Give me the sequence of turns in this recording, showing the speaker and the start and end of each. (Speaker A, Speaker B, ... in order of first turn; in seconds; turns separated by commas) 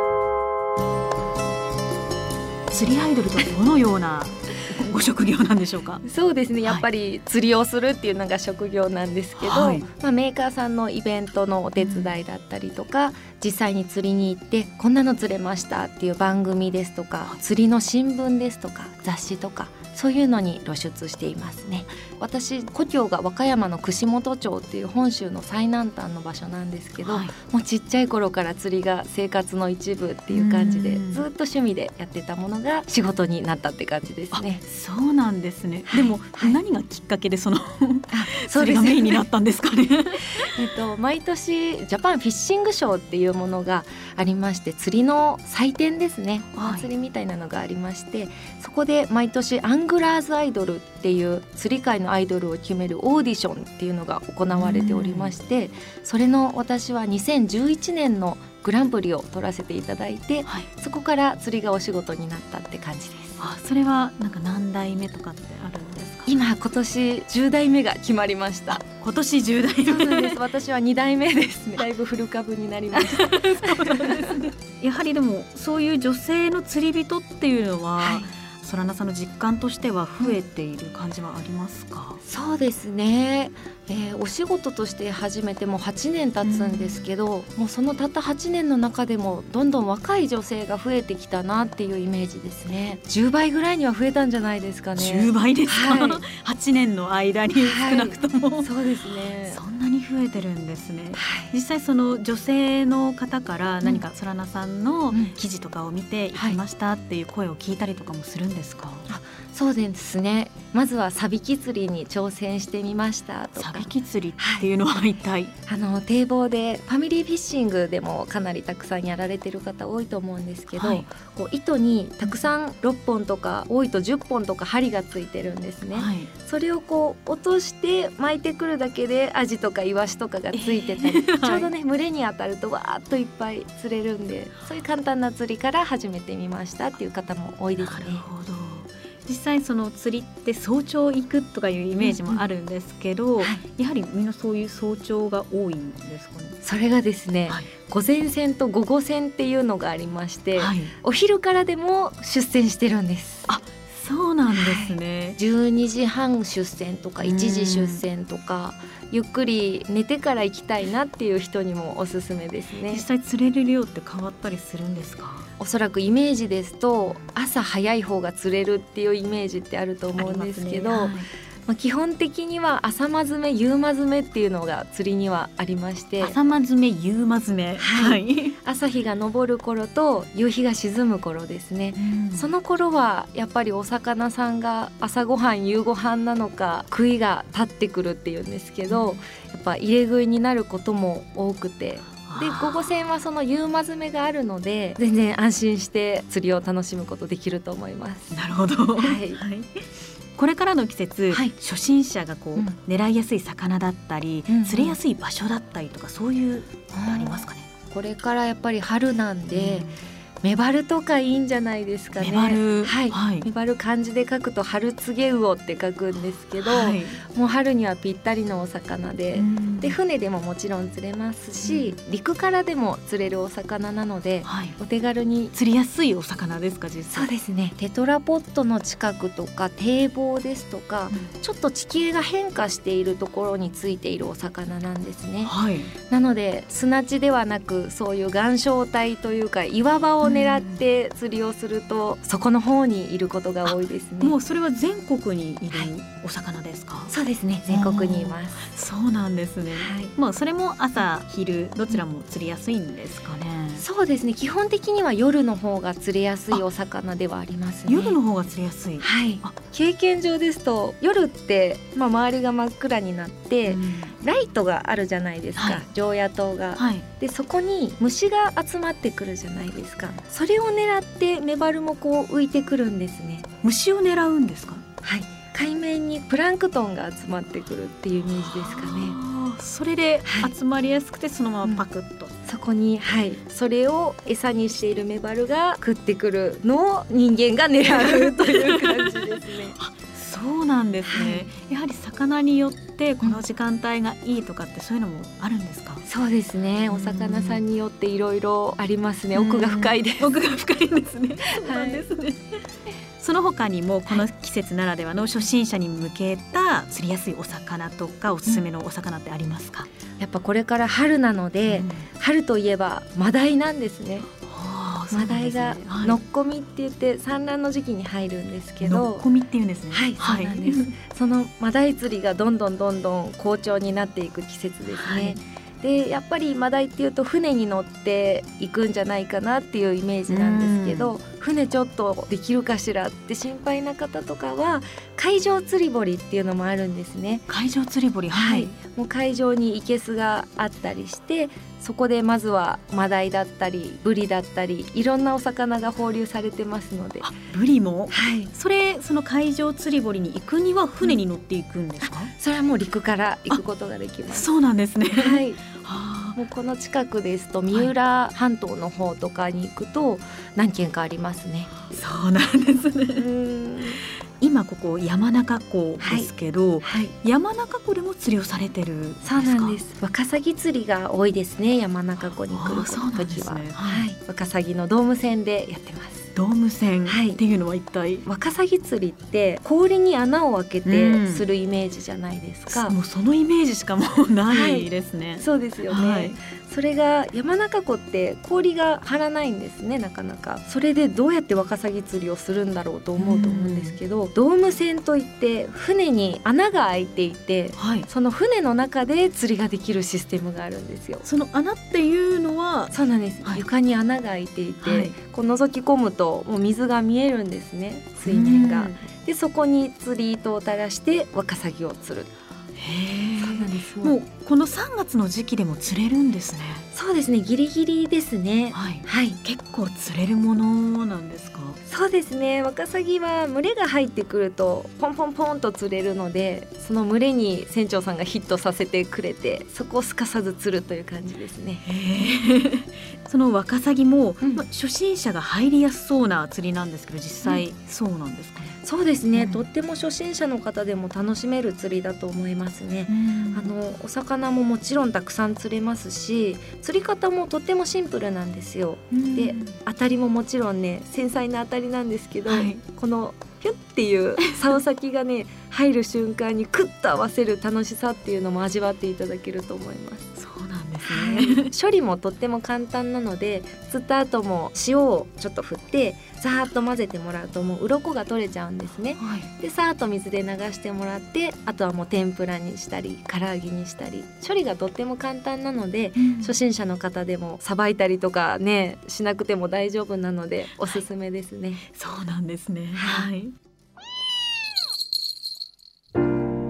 Speaker A: 2.7-6.0, Speaker B: 6.0-34.6, Speaker A: 9.4-9.9, Speaker A: 11.8-12.2, Speaker A: 27.0-27.3, Speaker A: 30.3-31.2, Speaker A: 34.3-40.5, Speaker B: 35.9-36.6, Speaker B: 38.1-39.2, Speaker B: 40.5-63.4, Speaker A: 46.5-46.9, Speaker A: 54.5-55.3, Speaker A: 63.4-66.3, Speaker B: 66.2-68.8, Speaker A: 68.7-70.4, Speaker B: 69.8-74.4, Speaker A: 73.0-82.2, Speaker B: 78.0-78.3, Speaker B: 82.2-96.2, Speaker A: 86.4-87.0, Speaker A: 95.0-98.7, Speaker B: 97.5-99.6, Speaker A: 99.4-109.1, Speaker B: 101.1-101.5, Speaker B: 105.1-105.3, Speaker B: 106.3-106.6, Speaker B: 109.1-114.7, Speaker A: 113.6-115.5, Speaker B: 115.7-138.2, Speaker A: 120.7-121.1, Speaker A: 125.9-126.3, Speaker A: 130.5-131.7, Speaker A: 137.8-146.6, Speaker B: 142.0-142.4, Speaker B: 146.6-153.5, Speaker A: 150.6-150.9, Speaker A: 153.5-155.4, Speaker B: 154.5-163.0, Speaker A: 157.2-158.0, Speaker A: 162.9-165.5, Speaker B: 165.6-176.3, Speaker A: 170.2-171.3, Speaker A: 176.2-178.6, Speaker B: 177.8-198.4, Speaker A: 181.9-182.5, Speaker A: 188.9-189.2, Speaker A: 192.2-192.9, Speaker A: 198.3-199.8, Speaker B: 199.0-199.4, Speaker A: 200.3-207.7, Speaker B: 204.5-205.0, Speaker B: 206.9-225.5, Speaker A: 209.5-209.9, Speaker A: 212.2-213.5, Speaker A: 216.6-217.2, Speaker A: 219.3-220.0, Speaker A: 221.6-221.9, Speaker A: 224.4-224.8, Speaker A: 225.5-227.3, Speaker B: 227.1-235.5, Speaker A: 235.4-235.9, Speaker B: 236.1-244.3, Speaker A: 240.2-240.8, Speaker A: 243.7-247.1, Speaker B: 247.1-248.7, Speaker A: 247.7-253.8, Speaker B: 249.7-250.1, Speaker B: 253.8-258.2, Speaker A: 257.9-259.5, Speaker B: 259.0-273.5, Speaker A: 263.7-264.1, Speaker A: 265.6-265.8, Speaker A: 266.8-267.1, Speaker A: 273.6-274.8, Speaker B: 275.0-279.2, Speaker A: 278.4-282.3, Speaker B: 280.2-280.5, Speaker B: 282.4-289.8, Speaker A: 287.9-296.0, Speaker B: 291.1-291.5, Speaker B: 296.1-300.3, Speaker A: 296.9-297.6, Speaker A: 299.3-302.4, Speaker B: 301.4-302.1, Speaker A: 303.2-309.9, Speaker B: 310.2-314.3, Speaker A: 311.7-312.1, Speaker A: 314.3-316.2, Speaker B: 315.1-319.2, Speaker A: 318.8-320.9, Speaker B: 319.9-337.5, Speaker A: 324.9-325.4, Speaker A: 330.3-331.1, Speaker A: 337.5-338.7, Speaker B: 338.3-347.3, Speaker A: 347.2-352.3, Speaker B: 348.1-348.5, Speaker B: 352.0-354.5, Speaker A: 354.3-356.4, Speaker B: 355.1-355.6, Speaker B: 356.3-361.8, Speaker A: 361.9-363.2, Speaker B: 363.1-364.0, Speaker A: 364.4-369.8, Speaker B: 366.0-366.3, Speaker B: 366.8-367.1, Speaker B: 369.2-376.3, Speaker A: 372.5-374.1, Speaker A: 376.3-378.3, Speaker B: 377.1-377.4, Speaker B: 378.2-382.9, Speaker A: 380.8-381.4, Speaker A: 382.7-386.3, Speaker B: 384.5-401.2, Speaker A: 393.2-394.0, Speaker A: 397.8-398.1, Speaker A: 401.2-403.6, Speaker B: 402.9-412.3, Speaker A: 404.8-405.1, Speaker A: 408.2-409.0, Speaker A: 412.8-416.8, Speaker B: 413.4-414.1, Speaker B: 416.9-419.4, Speaker A: 418.7-421.8, Speaker B: 421.9-431.9, Speaker A: 431.9-438.8, Speaker B: 438.8-460.3, Speaker A: 439.3-439.6, Speaker A: 443.1-443.7, Speaker A: 449.1-449.8, Speaker A: 452.5-452.8, Speaker A: 460.4-461.7, Speaker B: 461.0-481.8, Speaker A: 469.2-469.5, Speaker A: 476.2-476.5, Speaker A: 481.9-483.5, Speaker B: 482.9-483.3